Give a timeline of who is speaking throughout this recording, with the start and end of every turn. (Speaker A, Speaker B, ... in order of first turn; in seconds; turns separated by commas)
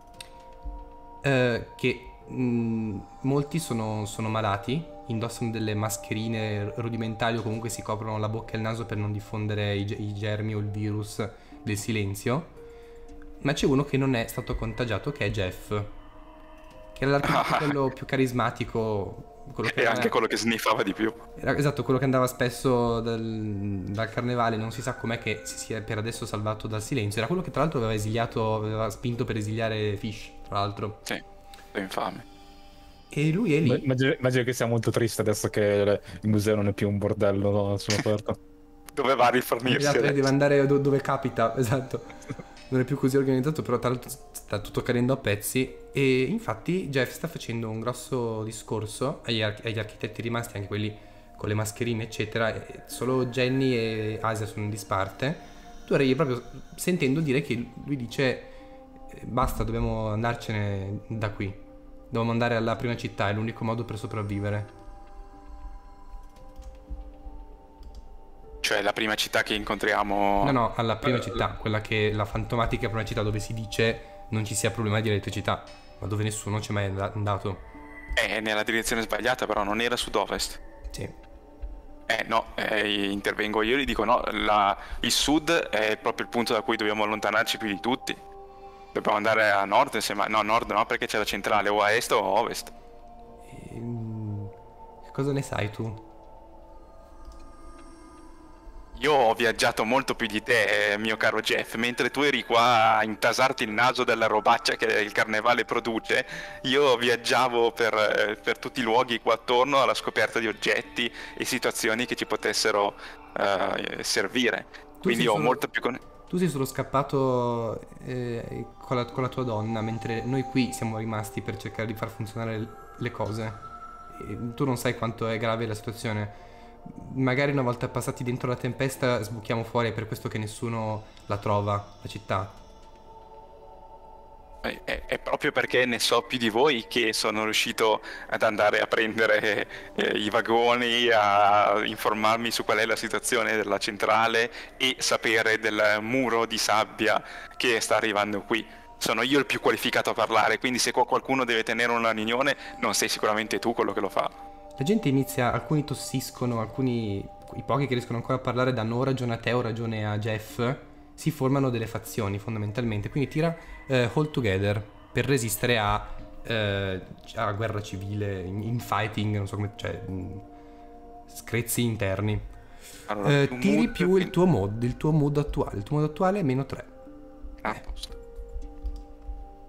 Speaker A: 1.2-12.5, Speaker A: 13.4-15.9, Speaker A: 16.9-20.1, Speaker B: 17.2-17.7, Speaker B: 19.6-21.2, Speaker A: 21.4-31.0, Speaker B: 31.7-32.2, Speaker A: 33.1-33.9, Speaker C: 33.6-38.4, Speaker B: 38.9-40.3, Speaker A: 39.6-42.1, Speaker A: 42.7-58.5, Speaker A: 59.1-64.7, Speaker B: 68.6-70.6, Speaker A: 70.4-77.7, Speaker B: 78.2-80.6, Speaker B: 82.1-88.2, Speaker B: 88.9-92.7, Speaker A: 93.5-94.5, Speaker A: 95.0-96.0, Speaker B: 99.0-116.0, Speaker A: 115.0-115.6, Speaker A: 116.3-132.6, Speaker B: 134.6-154.4, Speaker A: 154.8-170.4, Speaker A: 171.3-172.4, Speaker B: 173.1-174.3, Speaker A: 173.2-176.9, Speaker B: 177.6-178.2